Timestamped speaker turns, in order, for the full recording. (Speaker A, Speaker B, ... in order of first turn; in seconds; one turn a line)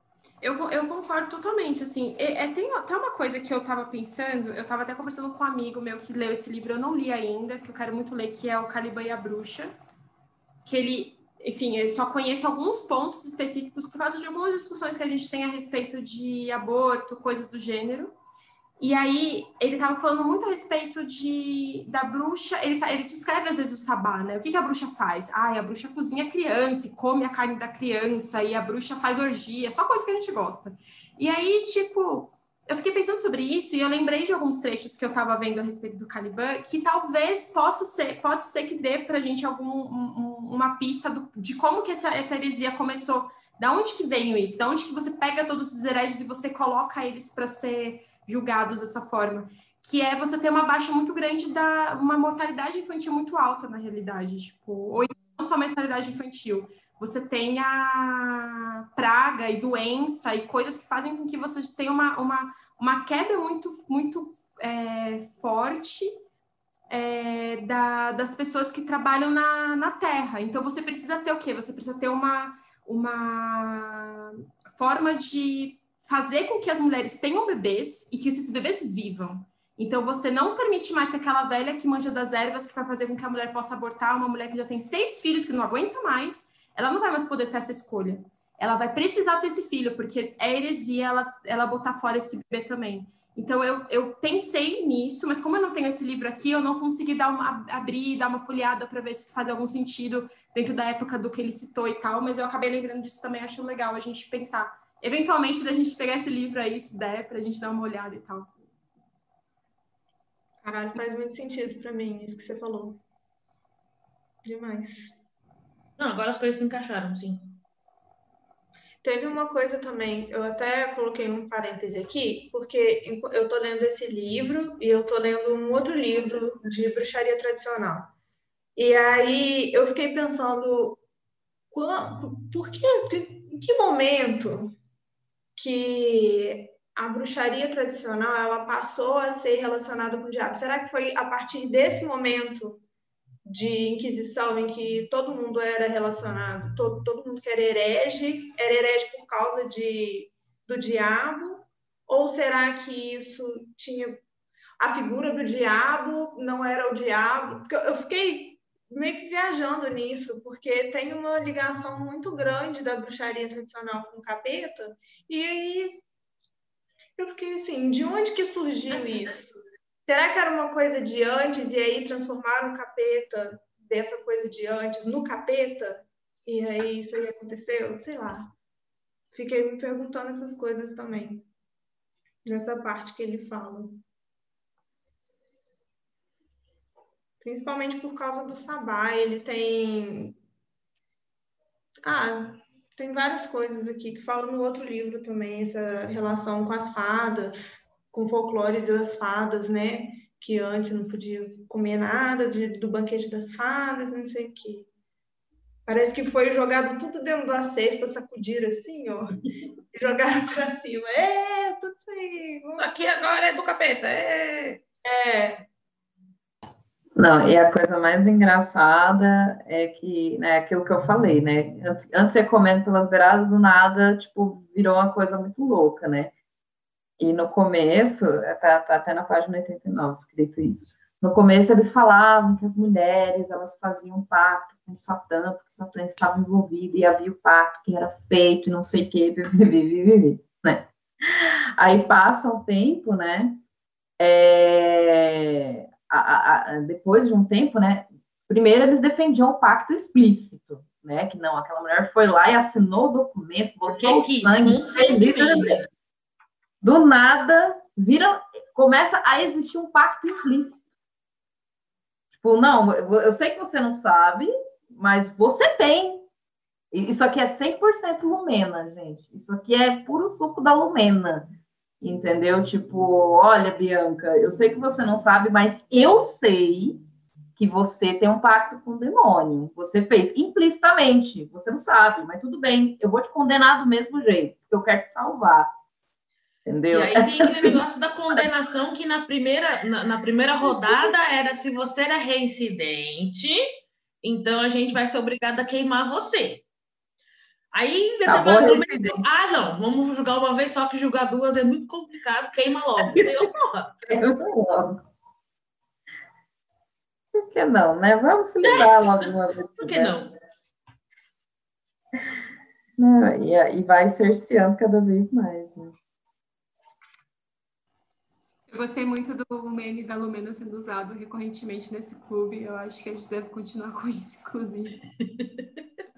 Speaker A: 0.4-9.7
Speaker A: 10.7-18.1
Speaker A: 18.8-66.1
Speaker A: 66.9-108.5
Speaker B: 110.6-113.0
Speaker B: 114.4-115.2
Speaker C: 116.0-117.6
Speaker B: 119.0-128.1
Speaker B: 128.8-131.0
Speaker B: 131.7-134.8
Speaker B: 135.6-142.8
Speaker B: 143.5-154.2
Speaker B: 154.8-166.0
Speaker B: 167.2-169.5
Speaker B: 170.1-178.6
Speaker B: 179.3-181.5
Speaker B: 182.4-184.0
Speaker B: 187.4-190.4
Speaker B: 192.0-204.9
Speaker B: 205.9-209.4
Speaker B: 209.9-212.9
Speaker C: 212.8-214.8
Speaker B: 215.1-215.7
Speaker D: 217.2-226.3
Speaker D: 227.2-243.6
Speaker D: 244.2-255.8
Speaker C: 253.9-255.9
Speaker D: 256.8-260.9
Speaker D: 262.4-266.3
Speaker D: 266.9-271.5
Speaker D: 272.0-277.0
Speaker D: 277.6-285.7
Speaker D: 286.7-287.8
Speaker C: 286.9-293.6
Speaker C: 294.2-296.7
Speaker C: 297.7-303.9
Speaker D: 298.3-299.2
Speaker D: 304.1-305.0
Speaker D: 307.4-310.2
Speaker C: 308.6-310.3
Speaker D: 313.0-316.0
Speaker A: 318.7-325.0